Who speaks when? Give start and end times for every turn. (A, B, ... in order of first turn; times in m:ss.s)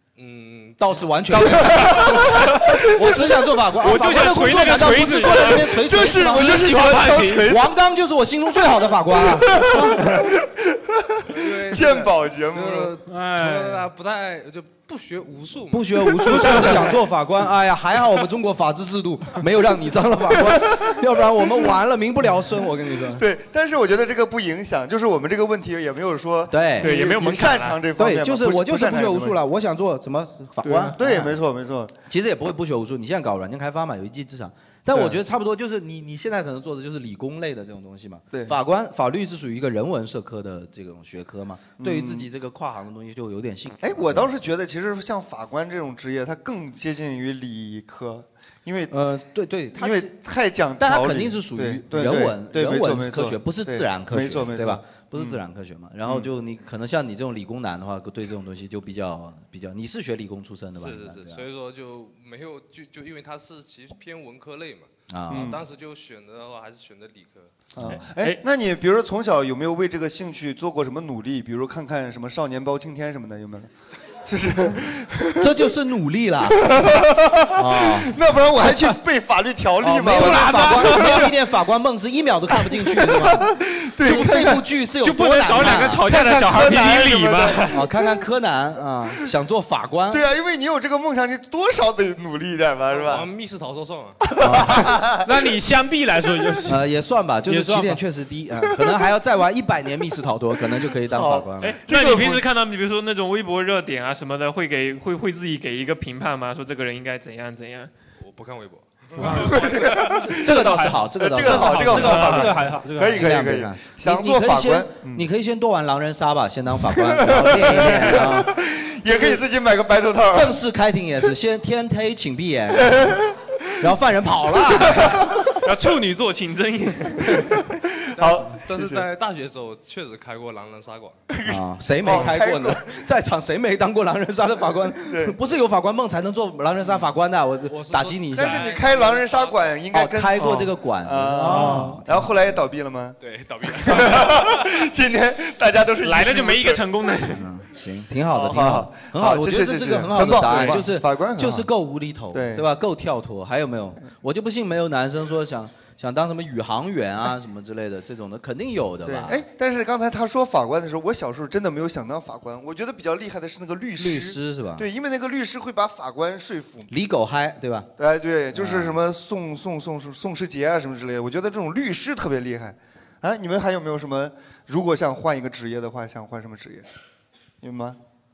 0:00.2-0:01.6 A
0:00.8-0:10.2 B
0:01.6-0:02.5 C
0:03.8-0:05.8 D
0:05.7-0:07.7 C
0:06.2-0:07.5 E
0:09.5-0:12.9 C
0:11.3-0:16.8 A
0:13.1-0:13.9 E
0:15.7-0:23.2 B
0:23.2-0:29.4 C
0:26.5-0:27.0 B
0:26.8-0:27.8 D
0:28.0-0:31.4 B
0:30.6-0:30.9 D
0:31.0-0:31.9 C
0:32.1-0:44.3 B
0:34.9-0:35.2 C
0:41.8-0:42.3 C
0:43.8-0:48.9 C
0:48.9-0:50.1 B
0:49.8-0:55.4 C
0:50.8-1:01.4 B
1:00.8-1:07.5 A
1:05.1-1:05.6 B
1:05.3-1:05.6 C
1:07.8-1:13.7 C
1:07.9-1:08.4 D
1:14.2-1:15.5 C
1:15.4-1:17.0 B
1:16.6-1:21.3 C
1:17.5-1:18.2 B
1:19.8-1:26.1 B
1:20.2-1:21.2 E
1:23.0-1:24.7 C
1:25.0-1:27.8 D
1:26.1-1:27.7 C
1:27.7-1:30.2 B
1:30.1-1:33.3 C
1:32.9-1:34.2 A
1:34.2-1:35.2 C
1:34.4-1:35.0 B
1:35.2-1:36.8 E
1:36.7-1:41.8 B
1:37.5-1:38.0 E
1:41.1-1:42.4 C
1:41.6-1:47.9 D
1:48.2-1:50.2 A
1:49.2-1:49.6 E
1:49.2-1:58.5 B
1:49.2-1:50.4 C
1:50.3-1:53.3 E
1:51.2-1:55.2 C
1:52.0-1:52.4 D
1:57.0-2:00.6 C
1:59.1-1:59.4 B
2:00.3-2:03.2 B
2:03.8-2:05.3 B
2:05.4-2:07.5 D
2:08.2-2:09.0 C
2:08.2-2:11.2 A
2:11.3-2:12.9 C
2:11.5-2:18.7 B
2:15.1-2:15.4 C
2:17.7-2:19.7 A
2:18.3-2:26.8 C
2:19.9-2:22.3 B
2:20.4-2:20.7 D
2:21.4-2:22.0 E
2:21.5-2:21.9 D
2:23.2-2:24.8 A
2:26.0-2:27.4 D
2:27.3-2:39.4 B
2:28.3-2:31.7 C
2:32.3-2:32.7 C
2:39.0-2:46.9 C
2:44.0-2:44.9 B
2:46.9-2:47.9 B
2:48.0-2:56.9 C
2:48.5-2:49.0 B
2:57.6-2:58.0 C